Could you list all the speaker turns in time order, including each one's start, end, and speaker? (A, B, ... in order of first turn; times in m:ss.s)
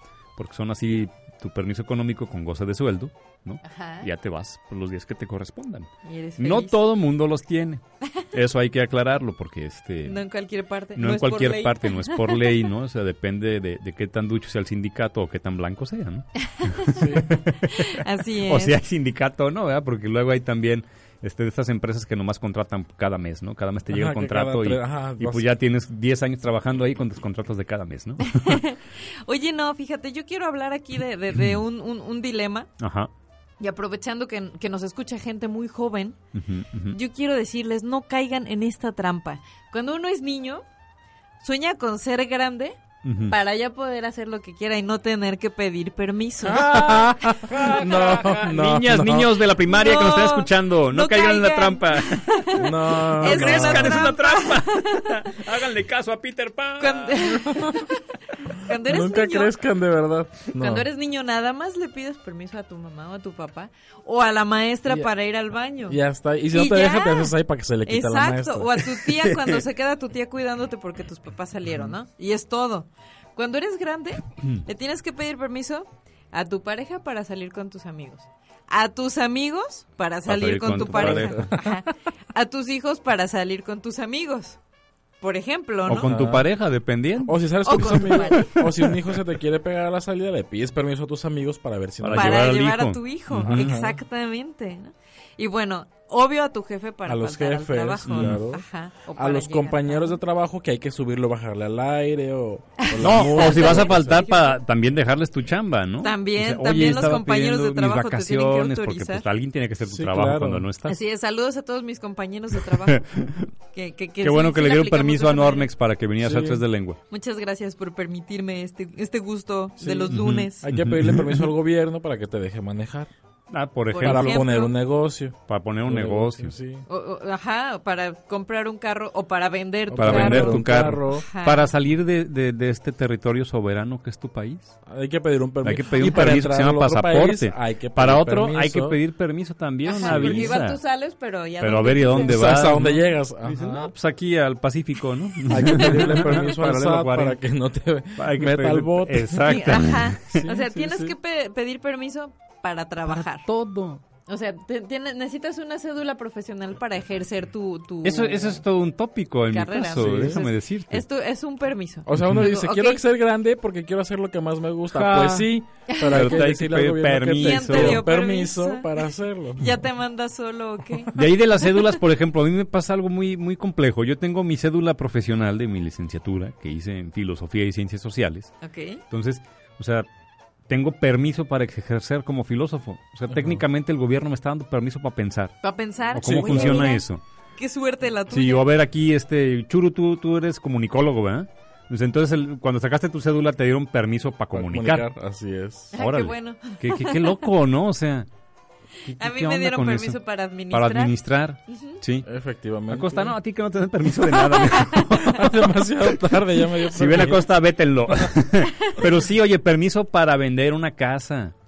0:00.4-0:10.2 A
0:03.6-0:04.1 B
0:06.0-0:06.8 B
0:10.0-0:12.7 B
0:11.0-0:28.6 A
0:16.6-0:16.9 B
0:17.0-0:17.3 C
0:17.6-0:18.8 B
0:23.9-0:25.5 C
0:28.2-0:32.7 B
0:32.8-0:33.1 A
0:33.6-0:36.2 B
0:36.4-0:37.0 A
0:36.9-0:40.6 B
0:41.4-0:46.8 B
0:43.0-0:43.4 A
0:46.4-0:49.4 C
0:46.7-0:57.8 A
0:49.6-0:55.4 B
0:52.6-0:54.1 C
0:56.8-0:58.0 B
0:57.4-0:57.8 C
0:58.6-0:59.6 B
0:58.7-1:00.9 C
1:00.5-1:24.6 B
1:05.9-1:08.8 C
1:09.1-1:09.5 A
1:20.3-1:21.5 A
1:20.9-1:21.6 C
1:25.2-1:26.1 B
1:25.9-1:29.2 A
1:26.0-1:26.5 C
1:27.2-1:32.4 C
1:27.6-1:28.7 B
1:32.0-1:33.7 A
1:32.1-1:40.2 B
1:33.4-1:34.0 C
1:37.1-1:38.6 C
1:38.1-1:38.4 A
1:39.2-1:44.2 C
1:42.8-1:44.6 B
1:43.0-1:51.0 A
1:46.0-1:49.3 B
1:49.9-1:50.7 C
1:50.9-1:55.7 B
1:52.9-1:53.5 A
1:54.2-1:57.0 A
1:56.2-1:56.6 C
1:57.1-2:00.7 B
1:59.8-2:03.1 C
2:00.1-2:01.5 A
2:03.5-2:04.5 A
2:03.9-2:04.8 B
2:04.0-2:06.8 C
2:05.5-2:06.5 A
2:06.9-2:11.7 B
2:09.9-2:11.2 C
2:10.0-2:14.8 A
2:14.9-2:19.0 C
2:15.6-2:20.8 A
2:19.8-2:22.5 B
2:20.0-2:20.6 C
2:21.6-2:27.4 A
2:22.1-2:23.9 C
2:25.5-2:31.1 C
2:25.6-2:26.4 B
2:28.2-2:30.4 A
2:29.4-2:33.5 B
2:33.1-2:34.0 A
2:34.3-2:38.6 B
2:38.0-2:41.0 A
2:39.5-2:43.0 B
2:40.0-2:40.4 C
2:42.1-2:49.7 C
2:44.9-2:45.5 A
2:46.0-2:46.4 B
2:46.1-2:48.1 A
2:47.4-2:52.0 B
2:51.1-2:58.5 A
2:58.6-2:59.0 B
2:59.1-3:00.1 A
3:00.7-3:05.5 A
3:03.4-3:03.6 C
3:05.6-3:08.7 B
3:06.1-3:07.2 A
3:06.2-3:06.9 C
3:08.3-3:15.1 A
3:14.5-3:15.9 C
3:15.9-3:17.5 B
3:16.0-3:18.3 A
3:19.0-3:20.2 A
3:19.2-3:22.0 B
3:20.7-3:22.3 A
3:22.2-3:23.3 C
3:22.9-3:31.6 A
3:24.4-3:25.2 B
3:25.0-3:27.5 C
3:28.8-3:29.2 B